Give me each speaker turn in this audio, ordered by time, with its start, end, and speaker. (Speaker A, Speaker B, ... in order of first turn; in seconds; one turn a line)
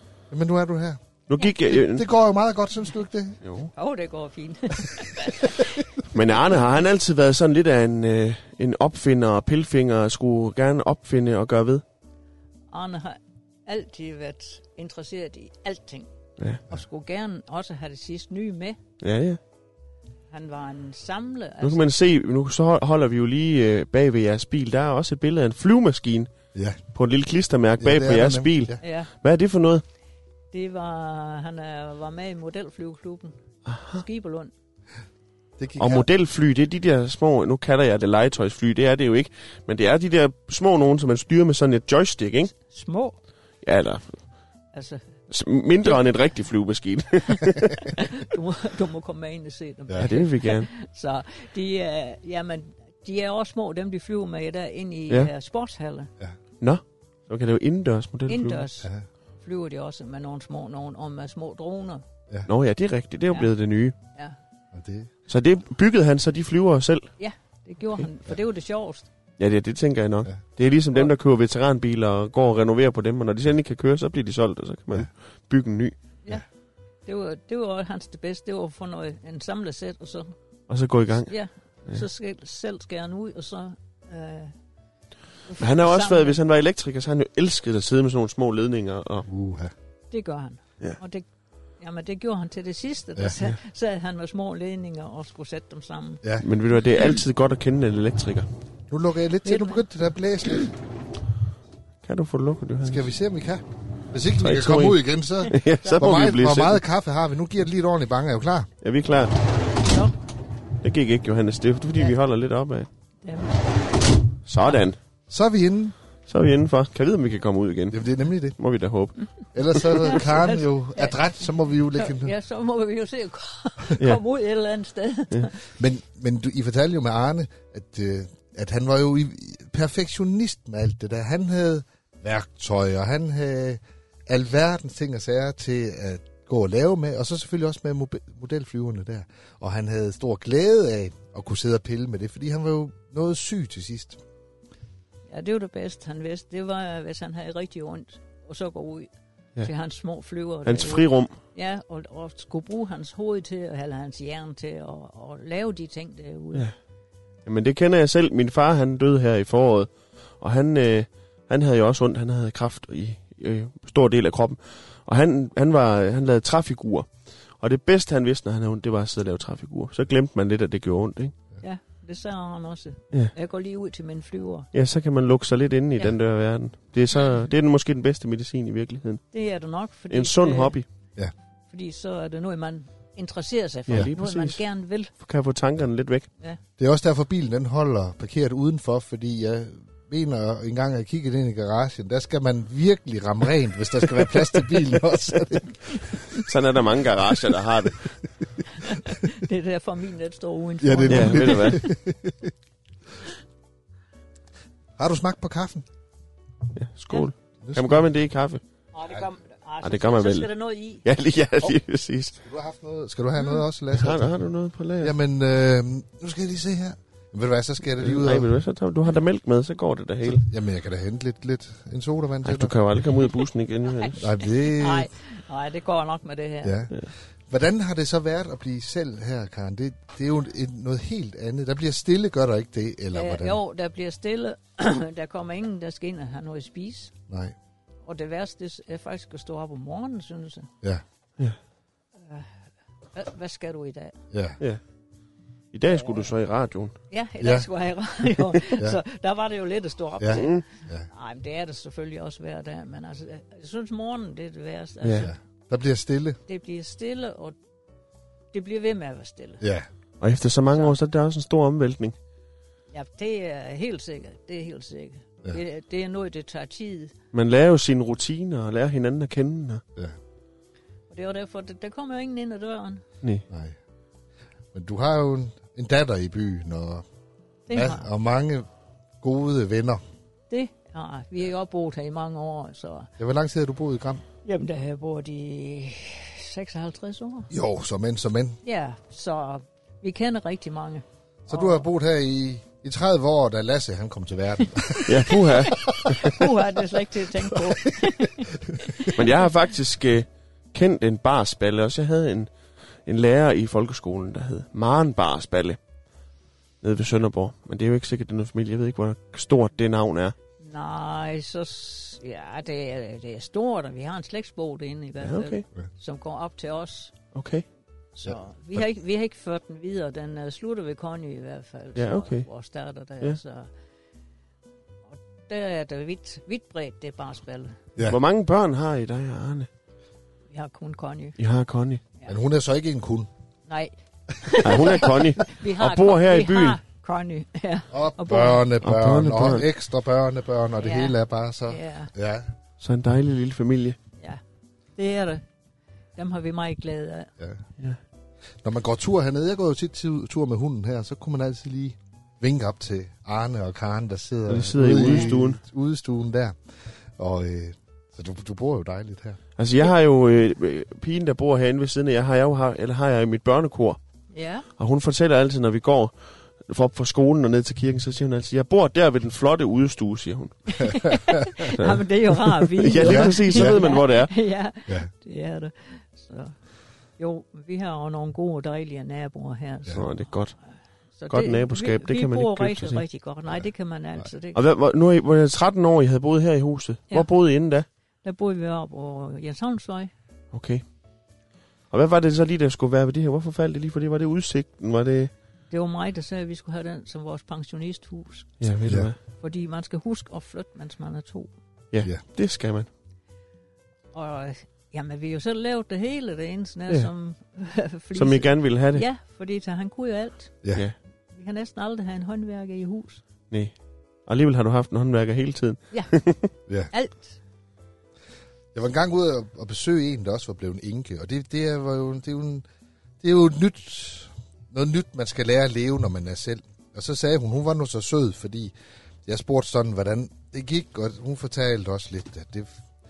Speaker A: 0.3-1.0
Speaker B: 1.3-2.0
Speaker A: 1.7-3.4
Speaker B: 3.4-3.7
Speaker C: 3.7-5.8
Speaker B: 6.1-11.8
Speaker C: 12.7-16.1
Speaker C: 16.7-18.8
Speaker B: 19.0-19.4
Speaker C: 20.3-21.8
Speaker B: 21.6-26.3
Speaker A: 26.5-26.8
Speaker B: 26.9-29.8
Speaker A: 27.8-28.8
Speaker C: 28.8-29.1
Speaker C: 30.5-33.4
Speaker B: 33.6-34.0
Speaker C: 33.9-34.5
Speaker A: 35.6-36.0
Speaker B: 35.8-42.5
Speaker C: 42.5-43.2
Speaker B: 43.6-44.2
Speaker C: 44.7-45.0
Speaker B: 45.3-48.0
Speaker C: 47.4-56.1
Speaker B: 50.0-50.7
Speaker B: 56.6-58.6
Speaker C: 58.3-62.0
Speaker B: 62.5-64.0
Speaker A: 64.7-65.1
Speaker B: 65.3-67.1
Speaker C: 67.2-69.1
Speaker B: 69.4-76.0
Speaker C: 77.0-80.3
Speaker B: 80.7-81.3
Speaker C: 81.3-84.5
Speaker C: 85.5-86.4
Speaker B: 85.6-89.3
Speaker A: 89.3-89.7
Speaker C: 90.1-91.2
Speaker C: 91.8-96.2
Speaker B: 96.4-98.5
Speaker A: 98.9-100.7
Speaker C: 99.4-99.8
Speaker B: 102.0-103.0
Speaker A: 102.8-108.7
Speaker B: 104.4-106.8
Speaker B: 108.8-109.3
Speaker C: 109.8-110.1
Speaker B: 110.8-112.9
Speaker C: 113.2-113.6
Speaker B: 114.5-115.0
Speaker A: 115.3-115.9
Speaker B: 116.3-118.0
Speaker A: 117.9-118.6
Speaker B: 118.5-119.2
Speaker A: 119.5-122.3
Speaker C: 120.0-121.2
Speaker C: 122.0-125.6
Speaker A: 125.8-144.2
Speaker C: 145.3-149.1
Speaker C: 149.6-156.7
Speaker B: 150.6-151.3
Speaker B: 157.4-171.3
Speaker C: 171.6-174.7
Speaker B: 174.7-179.2
Speaker C: 179.3-180.8
Speaker B: 180.1-180.8
Speaker C: 181.7-185.1
Speaker B: 183.9-184.6
Speaker B: 185.2-186.3
Speaker A: 186.8-196.2
Speaker B: 196.3-198.1
Speaker C: 198.8-201.9
Speaker A: 200.8-202.5
Speaker B: 201.1-201.8
Speaker A: 205.0-205.8
Speaker B: 206.7-208.6
Speaker A: 207.6-208.0
Speaker C: 208.9-211.0
Speaker B: 209.8-210.5
Speaker B: 211.0-212.4
Speaker A: 212.4-214.3
Speaker B: 213.9-215.1
Speaker A: 215.0-218.5
Speaker B: 218.0-220.4
Speaker A: 220.3-222.7
Speaker B: 222.4-224.3
Speaker C: 223.9-226.8
Speaker A: 224.2-225.1
Speaker A: 226.6-226.9
Speaker A: 227.5-233.6
Speaker C: 233.1-237.1
Speaker A: 237.3-237.5
Speaker C: 238.1-240.7
Speaker C: 242.2-242.5
Speaker C: 243.1-244.2
Speaker A: 244.3-244.6
Speaker B: 245.7-246.9
Speaker C: 245.9-246.2
Speaker C: 247.1-255.3
Speaker A: 247.4-247.7
Speaker A: 248.7-249.0
Speaker A: 250.2-251.1
Speaker B: 250.3-250.6
Speaker B: 255.0-255.3
Speaker A: 255.2-256.4
Speaker C: 256.5-257.5
Speaker C: 258.5-259.6
Speaker A: 259.6-259.9
Speaker B: 260.2-262.1
Speaker C: 262.9-267.1
Speaker B: 267.3-269.8
Speaker C: 271.1-273.0
Speaker A: 273.5-273.8
Speaker A: 274.7-277.0
Speaker C: 277.7-278.1
Speaker A: 277.7-278.7
Speaker A: 279.2-280.0
Speaker C: 280.5-283.1
Speaker A: 283.2-284.2
Speaker C: 284.4-287.5
Speaker A: 287.5-288.6
Speaker C: 288.6-291.8
Speaker A: 291.5-296.5
Speaker B: 295.0-296.4
Speaker C: 295.6-299.2
Speaker A: 297.5-298.1
Speaker A: 298.6-299.1
Speaker B: 299.1-302.5
Speaker B: 303.1-305.8
Speaker B: 306.8-310.3
Speaker C: 310.6-317.1
Speaker B: 315.2-315.6
Speaker B: 317.3-317.6
Speaker C: 318.1-323.7
Speaker B: 321.9-322.5
Speaker C: 325.5-327.8
Speaker B: 328.1-329.7
Speaker C: 330.5-331.4
Speaker B: 331.4-332.0
Speaker A: 332.2-333.3
Speaker C: 333.7-338.7
Speaker B: 334.6-336.8
Speaker A: 337.9-342.5
Speaker B: 338.8-339.6
Speaker C: 340.8-341.1
Speaker C: 341.7-342.1
Speaker B: 342.8-344.0
Speaker C: 345.0-345.4
Speaker C: 346.1-347.3
Speaker A: 348.6-356.6
Speaker B: 354.5-355.6
Speaker A: 357.2-359.4
Speaker B: 359.6-364.0
Speaker C: 364.3-364.7
Speaker B: 364.8-366.1
Speaker B: 366.6-371.1
Speaker C: 370.7-376.5
Speaker A: 370.8-371.6
Speaker B: 371.6-374.3
Speaker A: 372.9-373.9
Speaker C: 377.2-380.2
Speaker B: 379.9-380.5
Speaker C: 381.2-384.6
Speaker B: 381.3-383.0
Speaker B: 384.5-387.9
Speaker C: 388.2-390.1
Speaker B: 390.5-390.8
Speaker B: 391.9-395.3
Speaker C: 395.7-398.6
Speaker B: 398.6-399.2
Speaker C: 399.4-401.5
Speaker B: 401.9-402.9
Speaker C: 404.1-410.6
Speaker B: 408.1-409.0
Speaker C: 411.3-413.2
Speaker B: 413.5-413.7
Speaker B: 414.2-416.5
Speaker C: 416.9-417.4
Speaker A: 418.7-422.6
Speaker A: 423.2-428.7
Speaker A: 429.2-432.7